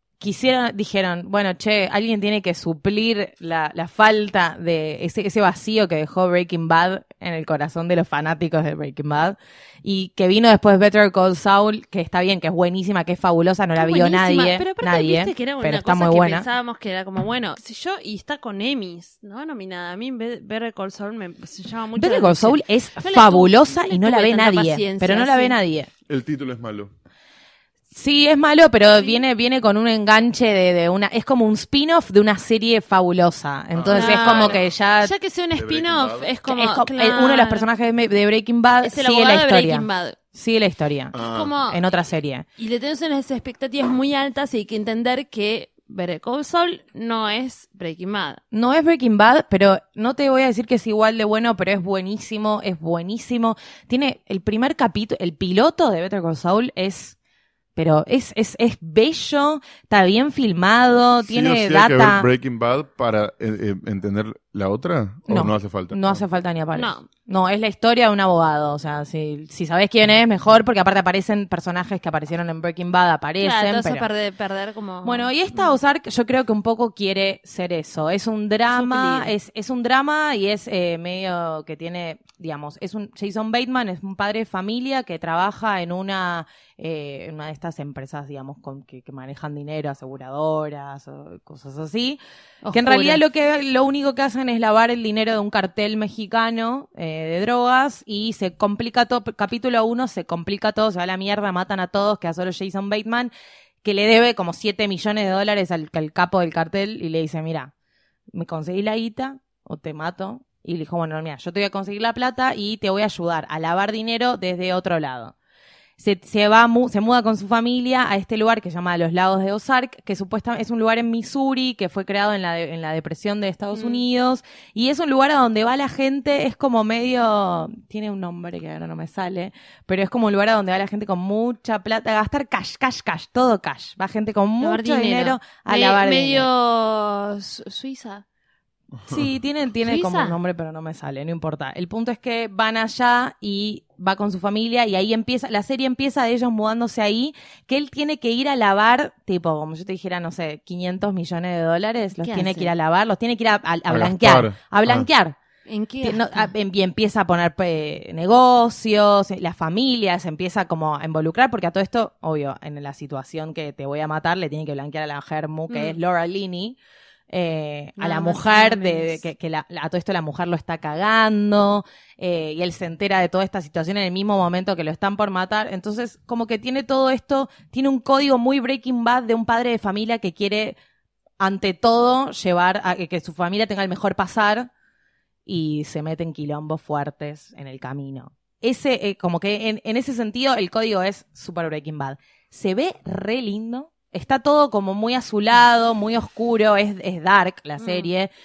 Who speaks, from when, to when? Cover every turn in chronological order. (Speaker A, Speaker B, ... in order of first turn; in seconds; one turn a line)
Speaker A: 0.2-16.4
Speaker B: 13.8-25.6
Speaker A: 21.9-25.9
Speaker C: 26.1-26.9
Speaker A: 27.9-35.1
Speaker B: 28.9-29.2
Speaker C: 33.7-34.7
Speaker B: 33.9-37.6
Speaker C: 35.5-36.3
Speaker A: 36.5-42.5
Speaker B: 38.8-40.2
Speaker C: 41.1-41.5
Speaker B: 41.2-41.8
Speaker B: 42.6-48.4
Speaker A: 48.5-57.1
Speaker A: 57.8-62.3
Speaker C: 61.2-66.2
Speaker A: 65.3-74.1
Speaker B: 66.7-67.0
Speaker B: 73.4-75.8
Speaker A: 75.0-92.2
Speaker B: 78.7-79.3
Speaker B: 92.6-93.2
Speaker A: 92.7-103.3
Speaker A: 103.8-107.7
Speaker A: 108.3-115.3
Speaker A: 116.0-136.5
Speaker B: 123.7-124.0
Speaker B: 134.6-138.2
Speaker C: 138.9-139.3
Speaker A: 139.1-155.3
Speaker B: 139.8-140.4
Speaker B: 152.2-152.7
Speaker C: 153.9-155.1
Speaker B: 155.7-156.5
Speaker A: 156.0-166.8
Speaker B: 165.7-166.0
Speaker A: 167.3-180.8
Speaker B: 168.0-169.2
Speaker A: 181.4-184.7
Speaker A: 185.4-198.3
Speaker B: 197.8-198.1